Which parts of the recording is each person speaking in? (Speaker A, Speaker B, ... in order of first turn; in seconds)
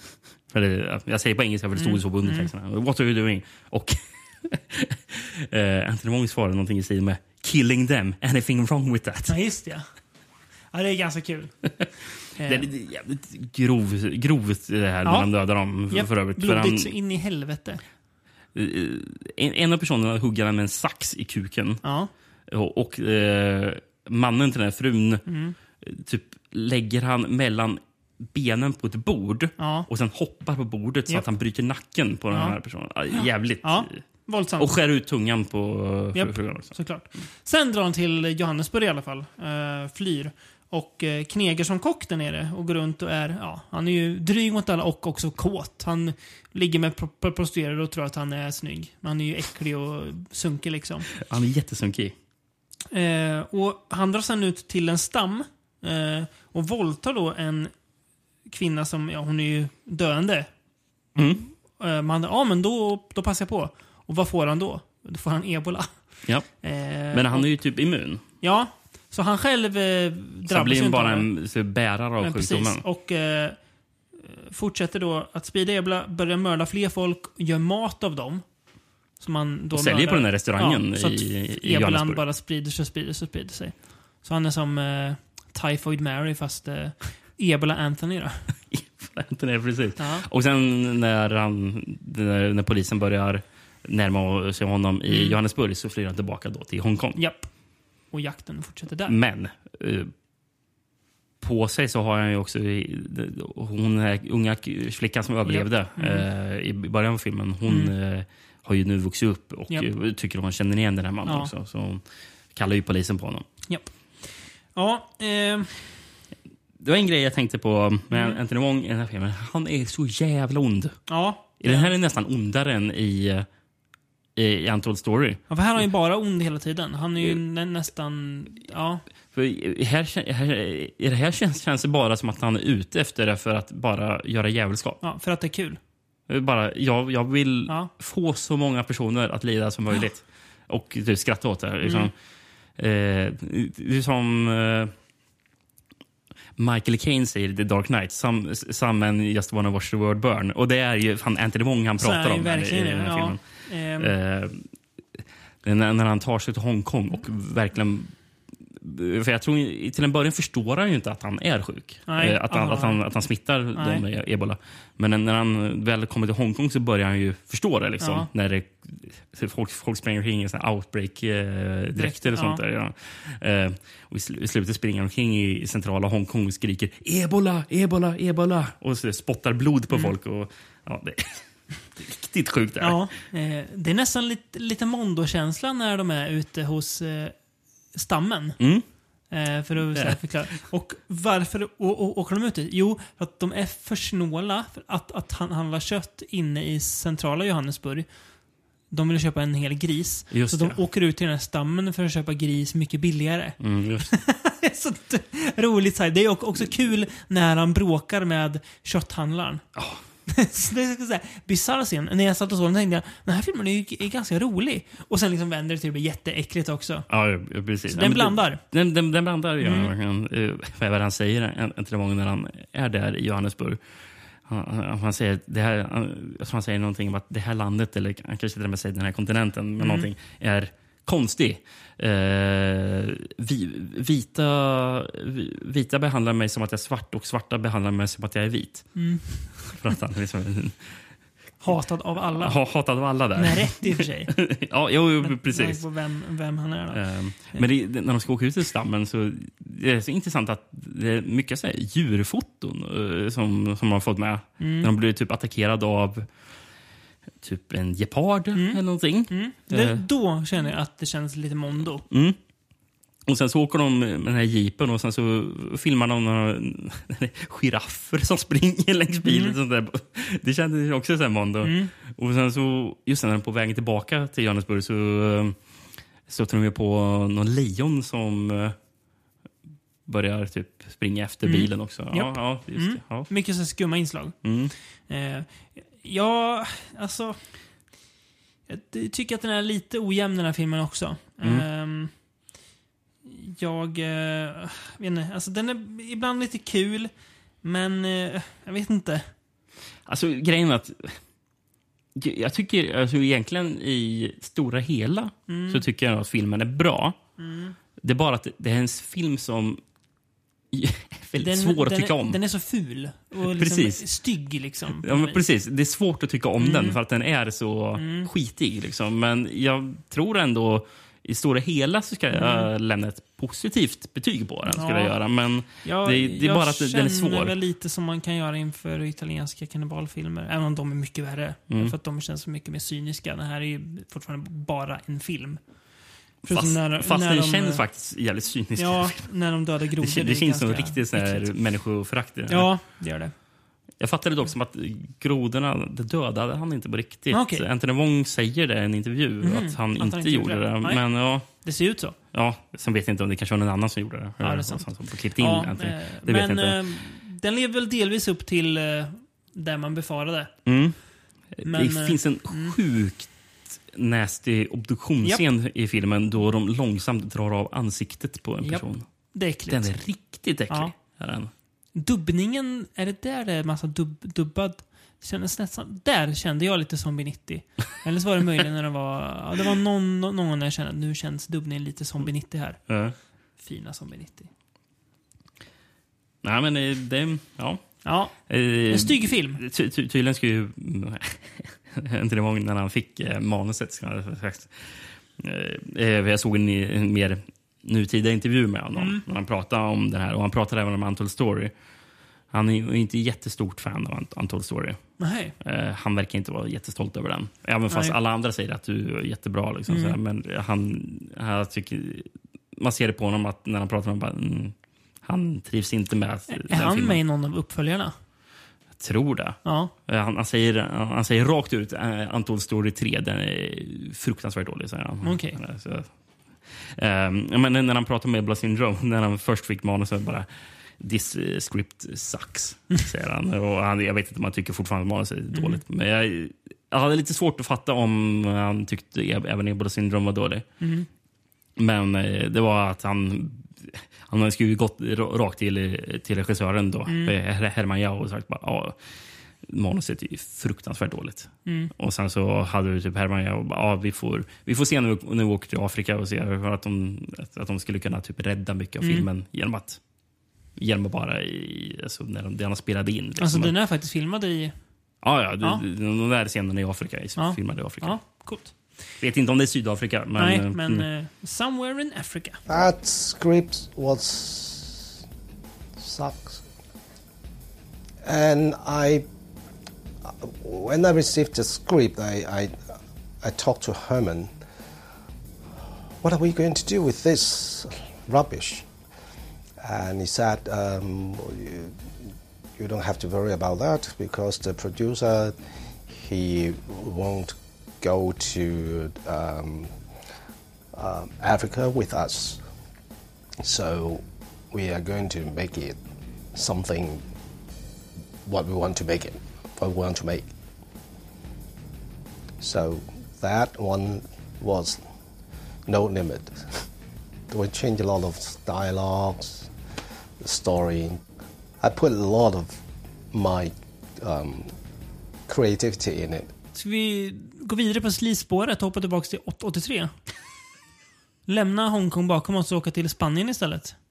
Speaker A: 0.5-9.4, 12.4-16.9, 18.5-21.8, 22.5-25.2, 25.8-34.0, 34.6-36.7, 51.1-52.1, 61.1-61.4, 67.1-68.2, 70.5-72.8, 79.7-82.2, 88.7-97.2, 99.1-100.1, 101.4-112.0, 112.5-113.5, 116.8-121.0, 121.6-123.5, 124.3-125.4, 129.3-135.0, 136.3-142.1, 142.8-144.9, 146.6-153.4, 154.0-154.6, 155.2-158.1, 158.7-181.4, 181.9-183.0, 188.6-188.8, 200.3-200.8, 203.6-204.1, 209.8-210.0, 217.1-223.8, 224.4-238.9, 239.6-241.0, 242.4-245.8, 246.9-256.3, 257.4-260.0, 262.1-262.4, 263.3-275.6, 276.3-278.8, 280.1-283.3, 284.4-284.7, 300.1-301.2, 302.1-307.2, 308.0-309.8, 310.7-312.4, 313.4-314.1, 315.0-327.6, 331.7-331.9, 336.5-339.2, 340.0-342.7, 344.0-351.5, 352.3-356.8, 360.6-361.0, 361.6-369.0, 369.7-371.5, 382.9-383.1, 386.4-401.7, 402.5-405.0, 405.6-417.2, 418.9-426.1, 426.7-430.5, 431.0-440.6, 441.8-449.0, 449.6-460.0, 460.8-463.7, 465.2-468.2, 469.2-471.1
Speaker B: 1.8-2.5, 9.3-9.8, 10.7-11.5, 12.4-12.7, 15.0-15.3, 15.9-17.8, 21.8-22.1, 25.2-25.6, 29.6-29.9, 32.3-32.6, 33.1-34.7, 36.1-51.1, 52.9-57.7, 58.5-60.5, 61.2-66.0, 66.6-67.5, 68.4-71.3, 72.2-73.6, 74.1-78.4, 79.2-88.4, 90.0-90.2, 95.1-95.3, 97.2-97.5, 98.1-99.2, 105.5-106.3, 107.7-107.9, 111.2-111.5, 114.7-115.7, 118.1-118.4, 121.1-121.9, 125.5-129.0, 135.0-135.8, 141.8-142.1, 152.0-154.1, 162.1-163.0, 163.7-164.0, 168.0-168.3, 171.9-172.6, 182.8-187.3, 187.9-188.6, 189.3-198.1, 198.9-209.6, 210.3-217.1, 217.9-218.6, 219.6-219.9, 229.8-230.1, 238.9-239.5, 241.6-242.6, 243.4-244.3, 245.2-247.0, 254.6-254.9, 258.5-262.1, 269.2-269.6, 271.6-271.9, 281.4-284.4, 285.1-287.4, 288.7-292.1, 293.2-297.1, 297.6-299.2, 305.5-305.8, 307.4-307.7, 311.4-315.4, 316.6-317.0, 317.9-318.3, 322.3-322.7, 324.7-325.1, 325.8-335.6, 336.4-337.8, 338.8-341.5, 342.5-343.3, 347.3-347.6, 349.4-351.0, 351.5-352.1, 354.4-354.9, 355.4-360.5, 361.6-362.7, 368.6-370.0, 371.9-382.8, 383.6-384.5, 388.0-388.4, 388.9-389.6, 398.9-399.2, 405.2-405.5, 407.9-408.1, 409.9-410.2, 416.5-418.1, 419.6-419.9, 425.2-425.6, 435.5-435.8, 440.8-441.1, 447.1-447.3, 451.6-451.9, 459.0-459.3, 463.4-464.7, 467.4-468.7, 470.4-472.6, 526.7-530.1, 531.5-534.0
Speaker C: 472.7-475.1, 476.0-476.6, 478.2-479.2, 480.3-482.8, 483.4-484.5, 486.2-488.9, 489.8-492.0, 492.8-495.5, 496.1-499.9, 500.9-502.6, 503.6-506.0, 506.5-507.2, 508.4-510.5, 512.6-515.0, 515.9-516.6, 517.5-519.7, 520.4-521.2, 521.8-522.8, 523.3-524.7, 525.5-526.5